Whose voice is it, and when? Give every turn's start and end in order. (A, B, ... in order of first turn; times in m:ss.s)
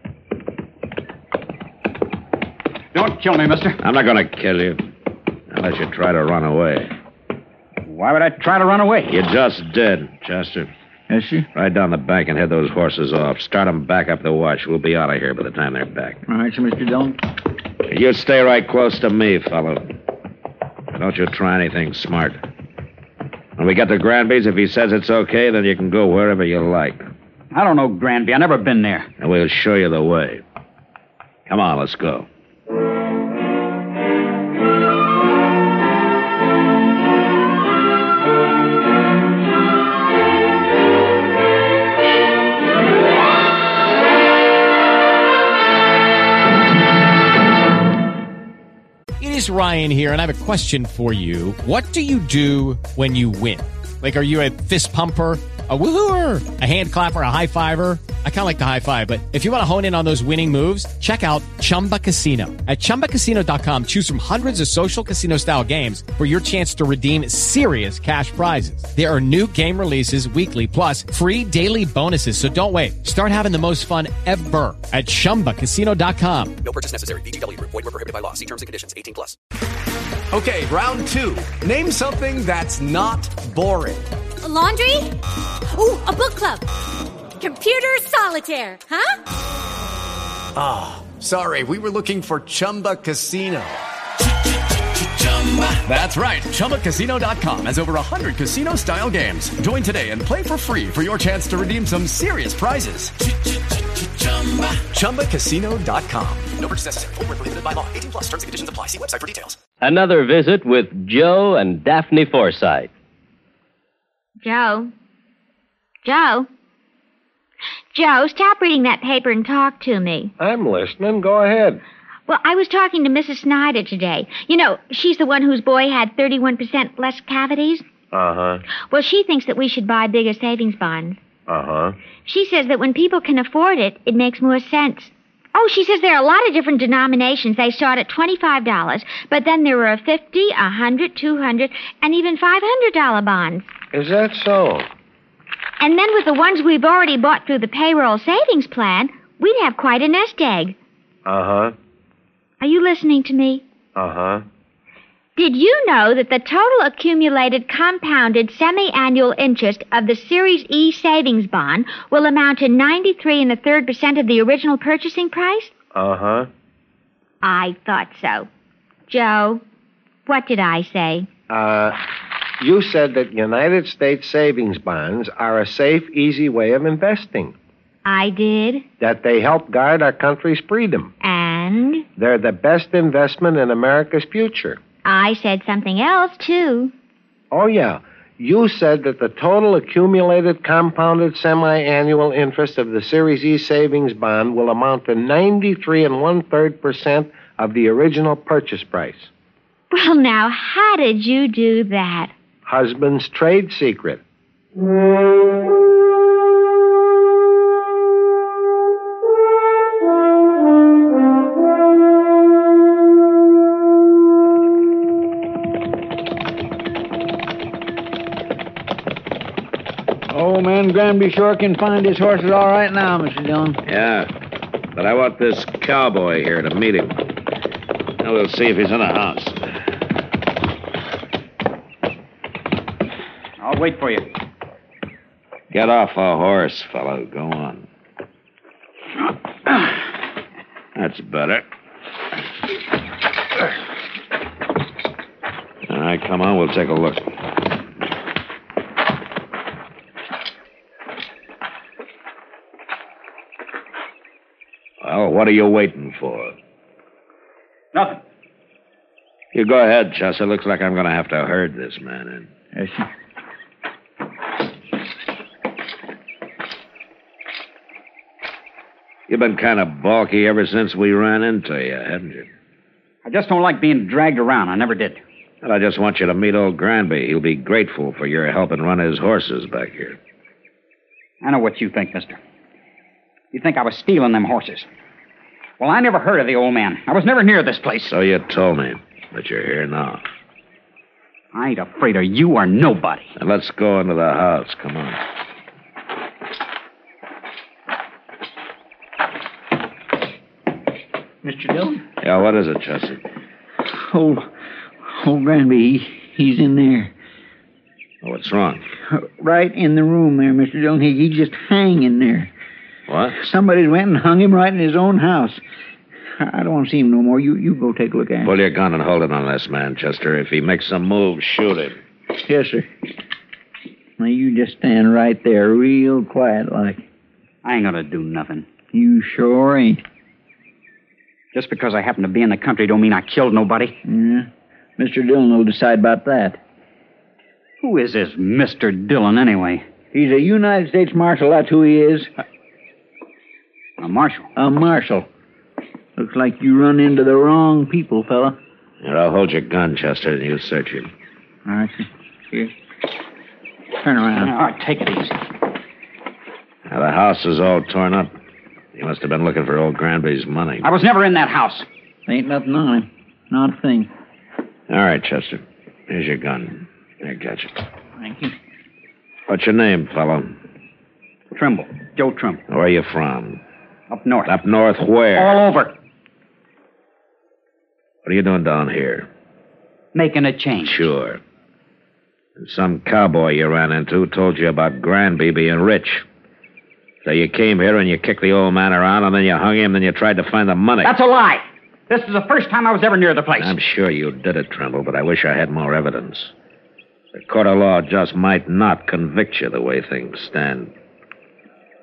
0:02.9-0:03.8 A
0:03.8-0:04.8 B
0:05.5-0:06.9 B
0:07.8-0:09.2 A
0:09.1-0:10.7 B
0:11.1-0:11.5 C
0:11.5-0:16.2 B
0:16.3-0:17.2 C
0:17.9-0:19.9 B
0:20.9-0:22.4 B
0:23.6-0:27.0 B
0:27.5-0:29.1 A
0:29.2-0:30.4 B
0:31.5-0:32.3 B
0:49.2-1:16.5 D
1:16.6-1:19.4 E
1:20.3-1:24.0 F
1:24.4-1:25.2 G
1:25.7-1:26.6 G
1:27.4-1:29.2 G
1:30.6-1:33.8 F
1:35.4-1:43.1 F
1:44.2-1:46.5 F
1:46.6-1:49.6 E
1:49.8-1:52.9 H
1:54.4-1:54.9 I
1:56.0-1:56.5 I
1:57.9-2:00.3 I
2:00.4-2:01.8 J
2:02.3-2:07.8 I
2:08.1-2:08.6 J
2:08.9-2:11.2 I
2:11.5-2:11.9 J
2:12.2-2:23.7 I
2:23.9-2:24.8 J
2:25.8-2:30.8 I
2:31.2-2:31.7 J
2:32.6-2:33.6 I
2:34.0-2:34.4 J
2:35.4-2:45.7 I
2:45.9-2:46.5 J
2:47.4-2:48.5 I
2:49.1-2:49.6 I
2:50.2-2:51.3 I
2:51.5-2:52.0 J
2:52.6-2:57.5 J
2:58.0-2:58.8 I
2:59.0-3:01.1 J
3:01.2-3:02.0 I
3:02.2-3:04.8 J
3:05.0-3:06.9 I
3:07.5-3:19.3 J
3:19.9-3:22.3 I
3:22.6-3:24.2 J
3:40.3-3:43.8 C
3:43.8-3:44.3 B
3:44.9-3:47.2 B
3:48.2-3:49.7 B
3:53.6-3:54.3 A
3:55.7-3:57.8 B
4:00.9-4:01.6 B
4:05.9-4:07.3 B
4:15.0-4:16.5 B
4:17.9-4:18.2 A
4:19.5-4:22.5 B
4:22.7-4:23.1 C
4:29.3-4:32.5 B
4:33.2-4:35.2 A
4:35.6-4:40.2 B
4:41.4-4:42.4 A
4:43.5-4:44.9 A
4:45.8-4:48.1 A
4:48.0-4:50.2 B
4:51.5-4:53.3 A
4:53.4-4:55.2 B
5:01.4-5:02.0 C
5:02.2-5:03.2 B
5:03.9-5:04.5 C
5:05.0-5:07.1 C
5:08.2-5:08.8 B
5:09.1-5:12.5 C
5:13.1-5:13.4 B
5:13.4-5:15.6 C
5:16.4-5:18.5 C
5:18.4-5:22.0 B
5:22.4-5:22.9 C
5:24.2-5:27.0 C
5:27.6-5:28.7 A
5:28.9-5:30.0 C
5:31.5-5:34.0 A
5:34.0-5:36.6 C
5:37.8-5:39.8 A
5:40.1-5:42.3 C
5:44.0-5:44.5 A
5:44.6-5:45.3 C
5:46.2-5:48.6 C
5:49.0-5:51.1 B
5:51.6-5:52.7 C
5:54.0-5:54.5 C
5:54.4-5:55.4 A
5:56.9-5:58.3 B
5:58.9-6:00.9 B
6:00.8-6:01.8 A
6:02.3-6:04.1 C
6:04.9-6:07.8 B
6:08.2-6:08.5 C
6:09.5-6:10.6 B
6:11.5-6:12.6 A
6:12.7-6:13.6 B
6:14.1-6:14.5 A
6:14.4-6:15.6 B
6:15.4-6:15.9 A
6:18.2-6:19.3 B
6:20.1-6:21.1 A
6:20.8-6:21.4 B
6:22.6-6:26.2 B
6:27.2-6:31.2 B
6:31.0-6:33.8 A
6:33.6-6:36.5 B
6:37.3-6:40.9 B